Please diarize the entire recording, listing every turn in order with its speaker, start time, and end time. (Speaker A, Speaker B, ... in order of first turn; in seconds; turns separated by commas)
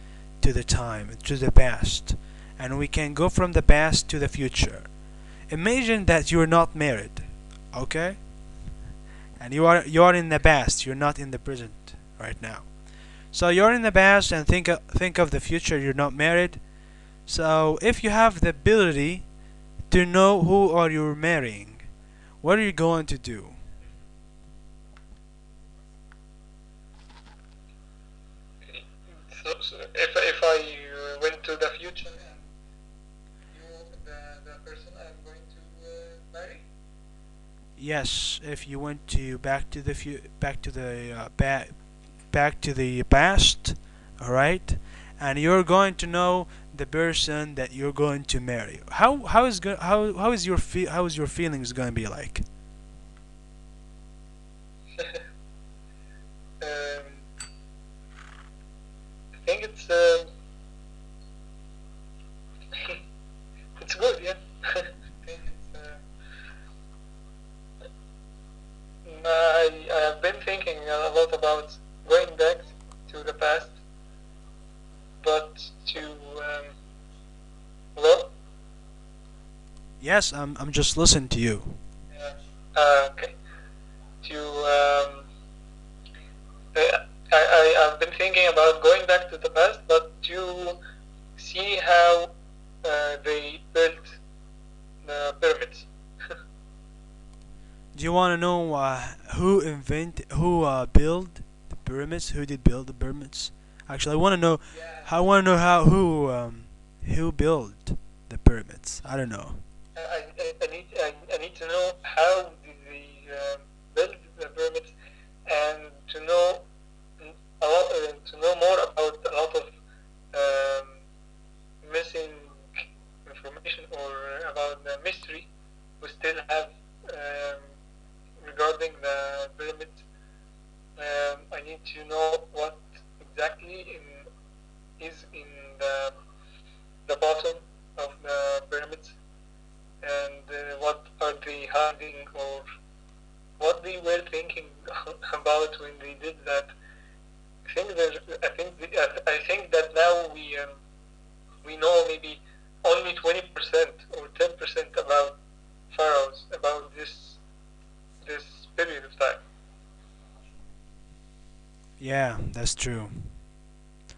Speaker A: 0.4-8.5, Speaker A: 9.4-21.9, Speaker A: 22.4-23.6, Speaker B: 28.7-32.5, Speaker B: 33.5-36.6, Speaker A: 37.8-52.4, Speaker B: 56.6-57.2, Speaker B: 59.4-60.3, Speaker B: 63.8-66.0, Speaker B: 69.0-73.8, Speaker B: 75.2-76.8, Speaker B: 78.0-78.3, Speaker A: 80.0-81.8, Speaker B: 82.1-83.3, Speaker B: 84.2-85.3, Speaker B: 86.7-90.8, Speaker B: 91.4-94.2, Speaker B: 95.0-96.3, Speaker A: 97.9-109.6, Speaker B: 104.6-105.1, Speaker B: 109.9-114.9, Speaker B: 115.5-116.7, Speaker B: 117.2-119.7, Speaker B: 120.3-121.0, Speaker B: 121.8-125.5, Speaker B: 126.0-127.7, Speaker B: 128.4-130.0, Speaker B: 131.0-134.3, Speaker B: 135.0-136.1, Speaker B: 137.1-139.2, Speaker B: 140.0-142.7, Speaker B: 143.6-146.7, Speaker B: 147.7-150.8, Speaker B: 151.6-155.4, Speaker B: 155.9-157.4, Speaker B: 158.2-159.4, Speaker A: 162.0-163.4